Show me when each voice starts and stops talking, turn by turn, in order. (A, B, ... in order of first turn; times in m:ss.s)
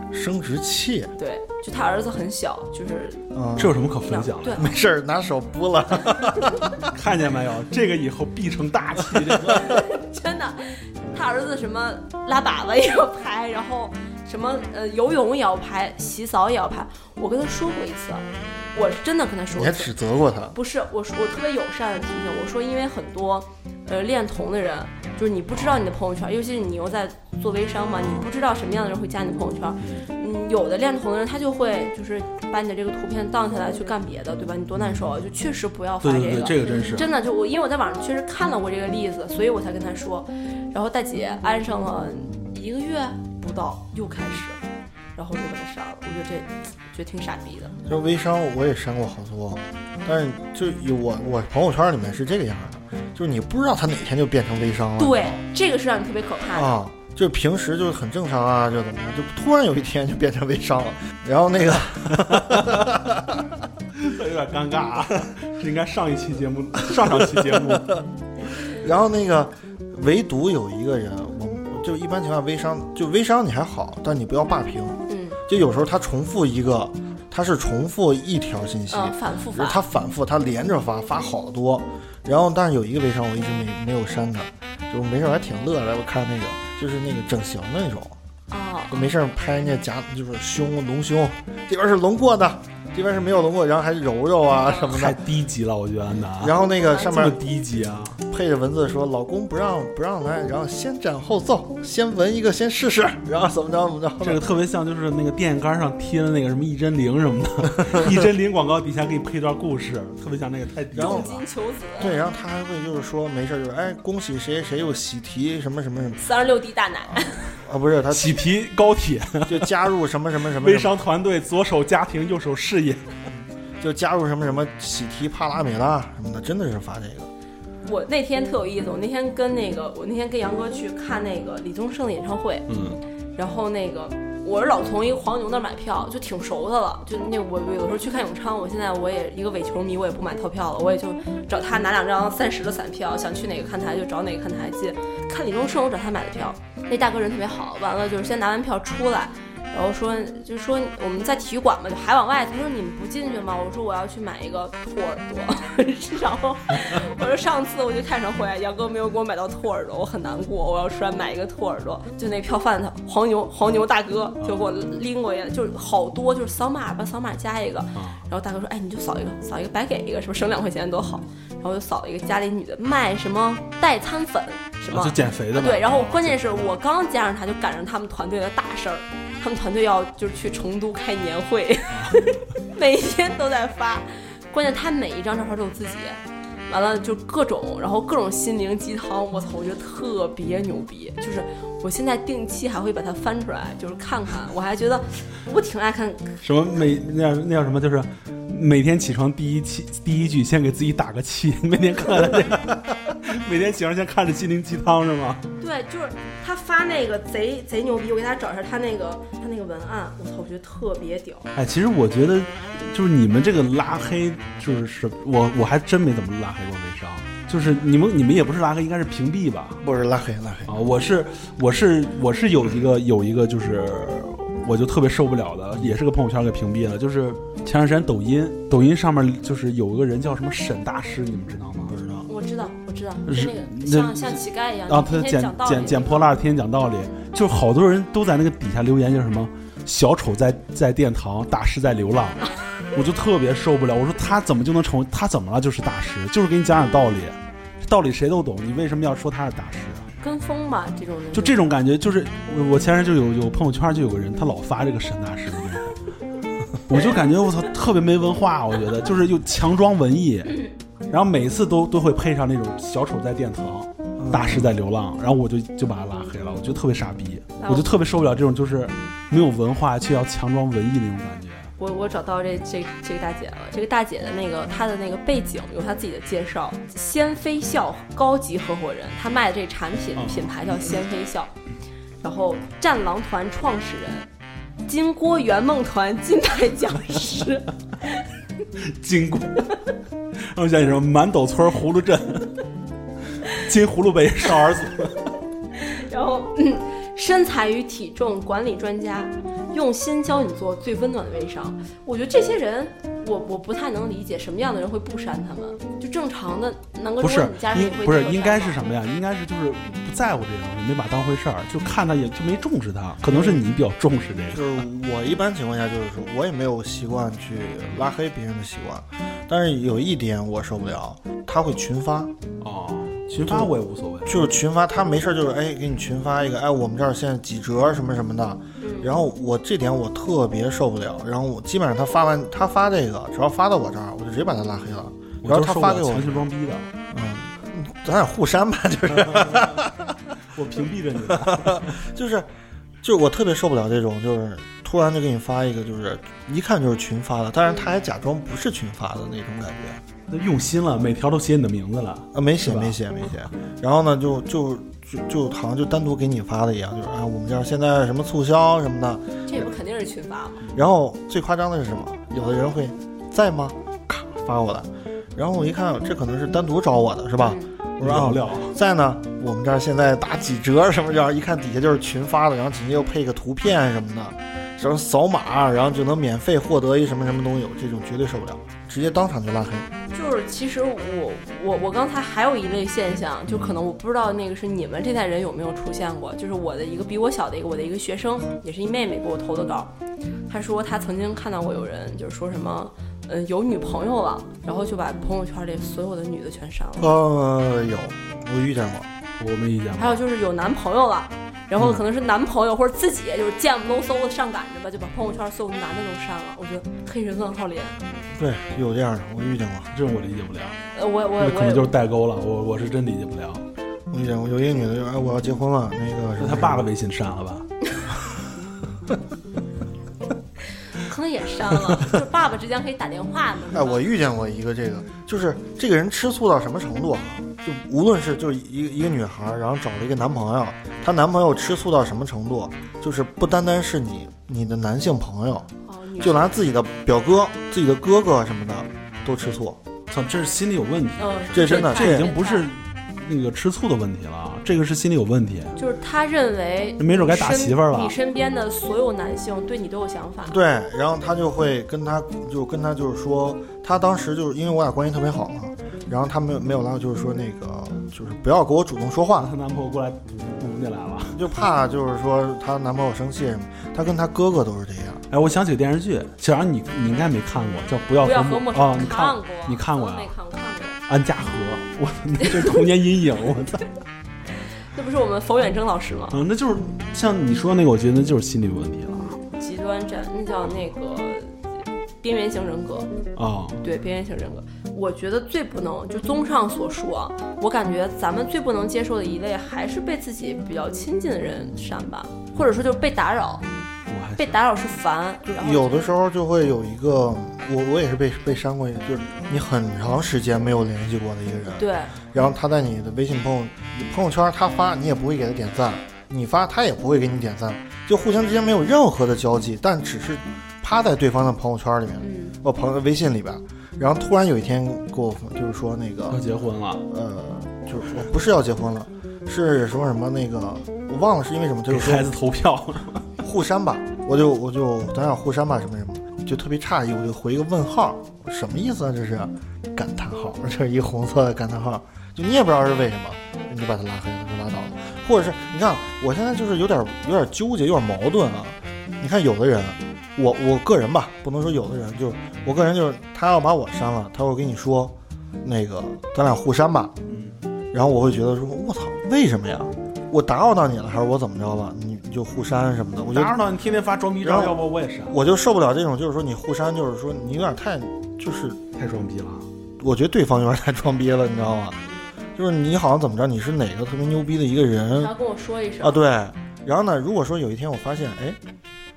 0:00.1-0:01.1 A
0:01.2-0:03.3 B
0:03.3-0:03.8 A
0:03.6-0:04.7 C
0:04.0-0:04.7 B
0:04.5-0:06.9 A
0:06.9-0:09.8 C
0:09.6-0:19.9 B
0:19.5-0:20.6 A
0:20.5-0:44.6 B
0:28.0-0:28.3 C
0:29.8-0:30.1 C
0:36.0-0:37.1 C
0:45.2-0:47.7 B
0:47.8-0:55.4 A
0:55.0-0:56.8 B
0:56.5-1:03.5 A
1:02.3-1:02.8 C
1:04.0-1:08.0 C
1:07.5-1:07.8 A
1:08.7-1:28.2 A
1:15.1-1:15.4 B
1:18.9-1:19.8 B
1:28.5-1:29.1 B
1:28.9-1:35.2 A
1:34.9-1:38.2 C
1:36.4-1:37.4 A
1:38.3-1:44.4 A
1:44.2-1:51.4 C
1:50.9-1:51.3 A
1:51.0-1:52.2 B
1:52.0-1:56.3 A
1:56.2-1:57.5 B
1:57.6-1:58.4 A
1:58.1-1:59.7 C
1:59.5-2:01.0 A
2:00.6-2:03.1 C
2:03.8-2:07.3 A
2:07.8-2:12.6 B
2:12.7-2:13.0 C
2:13.4-3:16.4 B
2:47.9-2:48.2 C
2:54.9-2:56.7 C
3:01.9-3:02.2 C
3:16.4-3:25.4 C
3:25.6-3:31.5 B
3:31.5-3:39.8 C
3:39.8-3:40.7 A
3:40.7-3:52.0 C
3:51.9-3:52.2 A
3:52.3-3:56.3 B
3:53.3-4:10.1 C
4:10.2-4:11.6 B
4:11.3-4:16.0 C
4:16.9-4:31.7 C
4:24.2-4:24.7 A
4:27.6-4:27.9 B
4:31.8-4:41.5 B
4:40.2-4:40.9 C
4:42.2-4:44.3 B
4:44.8-4:47.7 B
4:48.8-4:49.7 C
4:50.5-4:52.6 C
4:53.4-4:55.2 C
4:55.8-5:08.8 B
5:07.2-5:14.8 C
5:13.3-5:13.6 A
5:14.5-5:22.3 A
5:22.6-5:24.5 C
5:23.4-5:23.7 A
5:24.2-5:36.5 A
5:28.8-5:29.2 B
5:35.4-5:36.9 C
5:37.1-5:40.1 A
5:39.1-5:39.8 C
5:40.5-5:41.9 C
5:41.3-5:42.5 A
5:43.0-5:50.0 A
5:50.3-5:53.0 C
5:52.3-5:59.6 A
5:59.4-6:00.6 B
6:00.7-6:19.9 A
6:07.4-6:07.7 B
6:08.0-6:08.7 C
6:20.1-6:29.9 B
6:23.5-6:23.7 C
6:30.5-6:37.1 B
6:37.0-6:39.1 A
6:39.4-6:40.2 C
6:40.0-6:48.0 B
6:48.3-6:49.9 A
6:49.9-6:50.8 C
6:50.9-6:51.9 B
6:51.4-6:53.6 C
6:54.1-6:56.9 A
6:56.4-6:57.7 C
7:00.9-7:04.1 B
7:03.7-7:15.7 A
7:15.8-7:16.6 B
7:16.2-7:19.8 A
7:20.1-7:25.8 C
7:21.2-7:22.7 B
7:21.5-7:22.3 A
7:25.8-7:30.6 B
7:27.0-7:28.1 C
7:30.4-7:39.5 A
7:39.4-7:41.7 C
7:41.3-7:45.2 A
7:45.3-7:50.3 C
7:48.2-7:51.0 B
7:51.1-7:53.9 C
7:52.4-7:52.8 B
7:54.9-7:56.4 B
7:56.3-7:59.4 C
7:59.2-8:01.5 B
8:02.2-8:03.1 B
8:03.4-8:03.8 C
8:03.8-8:13.7 B
8:14.1-8:14.6 C
8:14.4-8:16.0 B
8:15.4-8:36.4 A
8:21.7-8:22.2 B
8:32.2-8:32.6 B
8:36.3-8:37.0 C
8:37.1-8:42.3 A
8:41.9-8:43.3 C
8:43.4-9:07.2 A
9:07.3-9:07.6 C
9:07.9-9:13.6 A
9:13.2-9:15.4 C
9:14.4-9:18.8 A
9:18.9-9:19.6 C
9:20.0-9:22.0 A
9:22.6-9:25.3 A
9:25.1-9:26.2 B
9:26.0-9:28.6 A